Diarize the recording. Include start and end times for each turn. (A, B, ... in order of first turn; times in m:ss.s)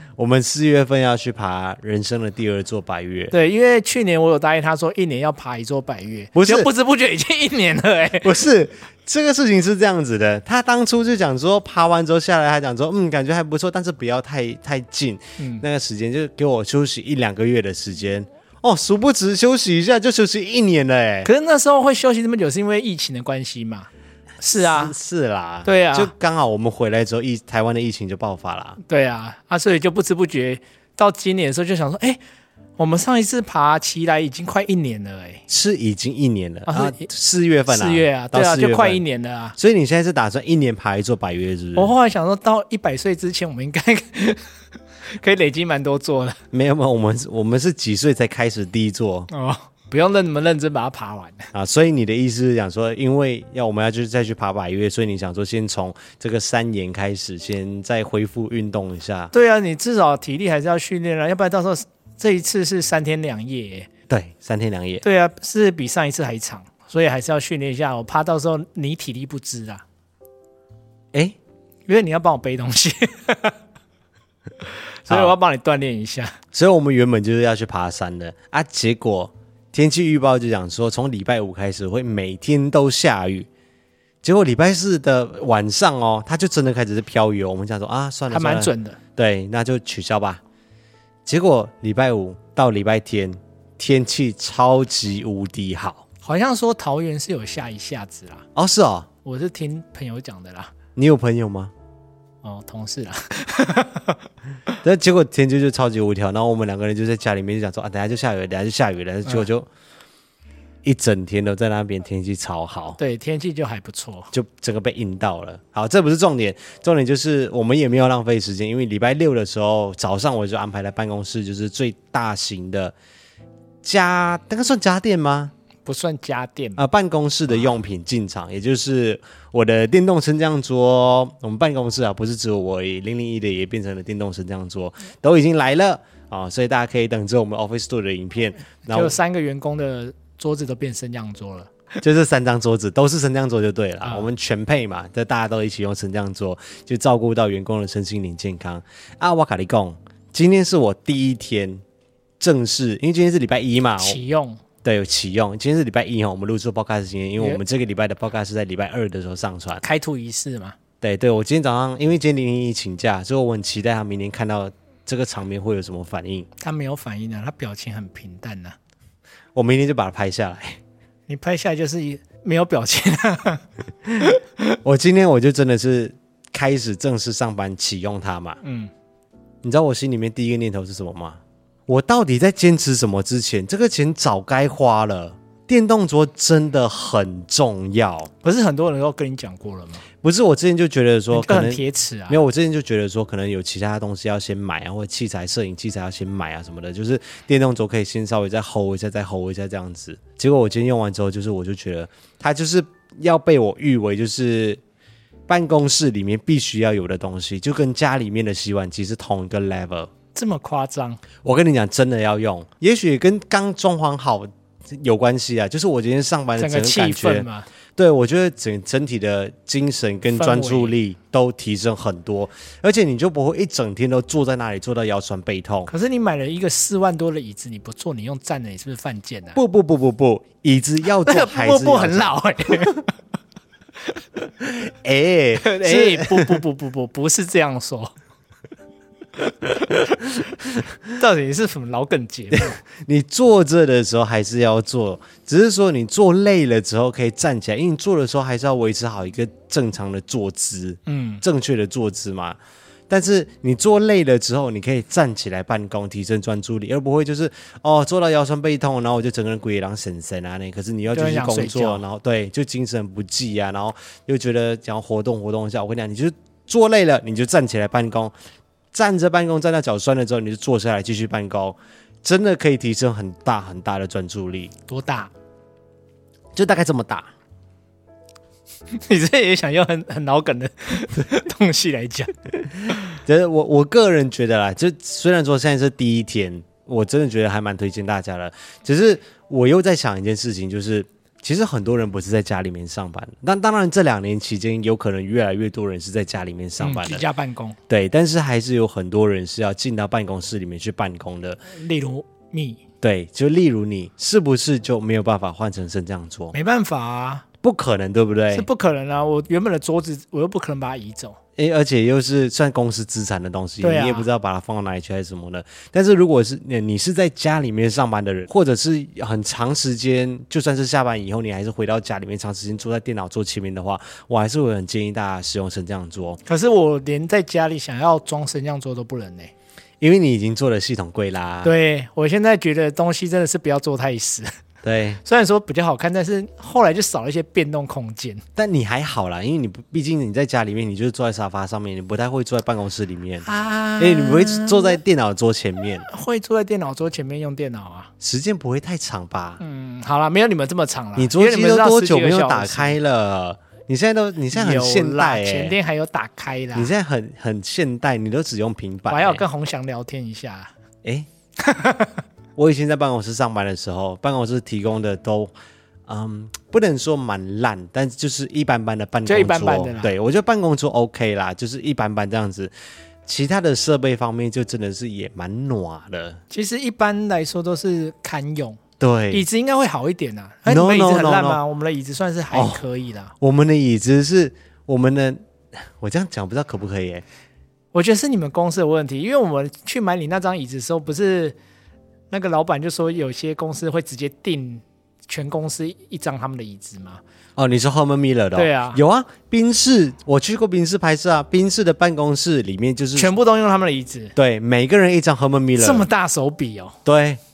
0:00.2-0:03.3 A
0:03.3-0:08.4 B
0:06.3-0:06.7 A
0:08.2-0:21.3 A
0:15.4-0:15.6 B
0:21.2-0:23.9 B
0:24.4-0:25.0 B
0:24.6-0:28.8 A
0:25.6-0:26.1 B
0:28.8-0:32.2 B
0:32.8-0:35.4 B
0:35.5-0:39.0 A
0:36.7-0:37.1 B
0:37.7-0:39.6 B
0:39.6-0:41.9 A
0:41.8-0:44.4 B
0:45.1-0:46.4 B
0:46.5-0:49.3 A
0:49.3-0:51.5 B
0:51.5-0:59.3 A
0:59.3-1:03.9 B
1:04.1-1:05.0 A
1:05.0-1:09.8 B
1:11.9-1:13.6 B
1:15.1-1:16.4 B
1:15.1-1:15.4 A
1:16.5-1:23.5 A
1:24.2-1:30.4 A
1:28.3-1:29.0 B
1:31.3-1:36.0 A
1:36.2-1:38.4 B
1:38.6-1:39.1 A
1:39.2-1:40.7 B
1:41.0-1:41.7 A
1:42.4-1:44.2 B
1:44.8-1:49.7 A
1:50.8-1:53.0 A
1:53.0-1:54.3 B
1:54.3-2:02.9 A
2:03.8-2:05.5 A
2:05.8-2:06.8 B
2:06.8-2:19.2 A
2:18.9-2:21.7 B
2:22.0-2:31.8 A
2:24.0-2:24.3 B
2:32.4-2:34.2 A
2:34.0-2:34.6 B
2:34.8-2:39.8 A
2:39.8-2:40.8 B
2:41.0-2:46.5 A
2:46.6-2:48.8 B
2:49.6-2:50.8 A
2:51.3-2:53.6 B
2:54.2-2:54.4 B
2:54.8-2:58.6 A
2:58.6-2:58.9 B
2:59.6-3:08.3 A
3:08.4-3:10.0 B
3:10.2-3:24.8 A
3:11.3-3:12.4 B
3:25.5-3:30.1 A
3:30.3-3:31.2 B
3:31.4-3:45.9 A
3:36.6-3:37.7 B
3:40.3-3:41.0 B
3:45.9-3:49.6 B
3:49.6-3:52.4 A
3:51.2-3:53.1 B
3:54.6-3:56.6 A
3:55.6-3:58.1 B
4:01.2-4:02.8 B
4:02.6-4:12.6 A
4:11.1-4:11.4 B
4:13.1-4:28.3 A
4:21.1-4:22.0 B
4:28.9-4:34.7 A
4:34.9-4:35.3 B
4:36.6-4:37.3 A
4:38.9-4:42.3 B
4:42.9-4:57.2 A
4:56.8-4:57.8 B
4:57.9-5:01.6 A
5:01.7-5:02.8 B
5:03.0-5:06.6 A
5:06.5-5:07.4 B
5:07.6-5:08.7 A
5:08.5-5:11.4 B
5:11.6-5:26.4 A
5:13.8-5:14.3 B
5:26.5-5:29.5 B
5:30.0-5:31.7 A
5:31.6-5:34.5 B
5:34.8-5:35.2 A
5:35.2-5:38.4 B
5:38.6-5:46.1 A
5:43.4-5:45.0 B
5:46.1-5:48.1 B
5:48.2-5:49.6 A
5:49.6-5:53.0 B
5:51.2-5:55.8 A
5:54.5-5:56.9 B
5:56.7-5:59.4 A
5:59.1-6:00.7 B
6:01.6-6:02.2 B
6:02.6-6:05.5 A
6:06.1-6:12.7 A
6:09.3-6:10.1 B
6:13.2-6:16.4 A
6:16.5-6:18.8 B
6:19.0-6:19.4 A
6:19.3-6:23.3 B
6:20.7-6:21.6 A
6:22.5-6:22.8 A
6:23.4-6:25.4 A
6:26.0-6:27.2 A
6:27.9-6:31.6 B
6:32.3-6:37.2 B
6:37.6-6:43.3 A
6:38.6-6:39.0 B
6:43.2-6:44.4 B
6:44.4-6:46.1 A
6:45.8-6:47.0 B
6:47.0-6:47.4 A